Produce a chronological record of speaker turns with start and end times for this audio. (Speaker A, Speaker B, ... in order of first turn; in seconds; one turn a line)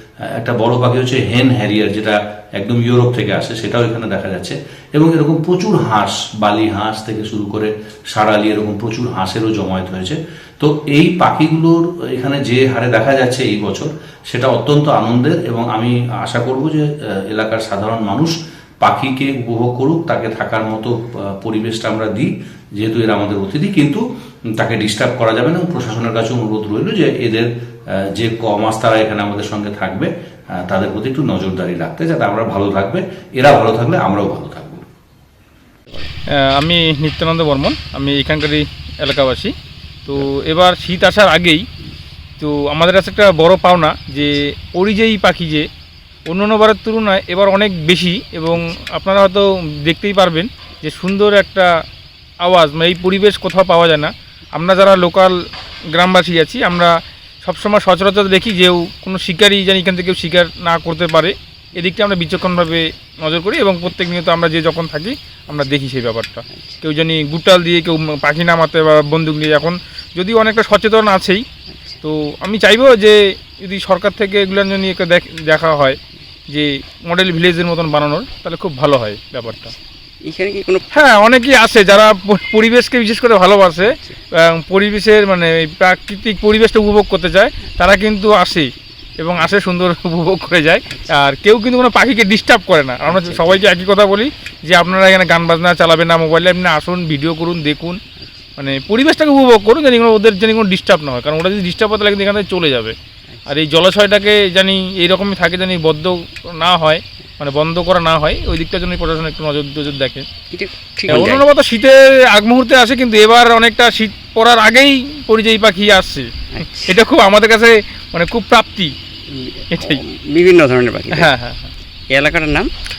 Speaker A: 0.3-24.0
Speaker A: 24.6-34.8
Speaker B: 36.4-39.5
Speaker B: 40.0-41.6
Speaker B: 42.4-45.6
Speaker B: 46.3-51.7
Speaker B: 52.4-55.3
Speaker B: 56.0-56.9
Speaker B: 57.4-71.4
Speaker C: 66.5-66.8
Speaker C: 71.7-72.0
Speaker B: 72.0-76.0
Speaker B: 76.5-79.7
Speaker C: 80.2-80.9
Speaker B: 80.9-98.0
Speaker C: 83.8-84.2
Speaker C: 93.0-93.6
Speaker B: 98.6-102.9
Speaker B: 103.5-110.2
Speaker C: 110.5-111.4
Speaker B: 111.1-116.3
Speaker C: 116.5-116.9
Speaker B: 116.8-118.9
Speaker C: 119.3-121.3
Speaker B: 119.7-120.0
Speaker B: 121.1-121.7
Speaker C: 122.1-122.7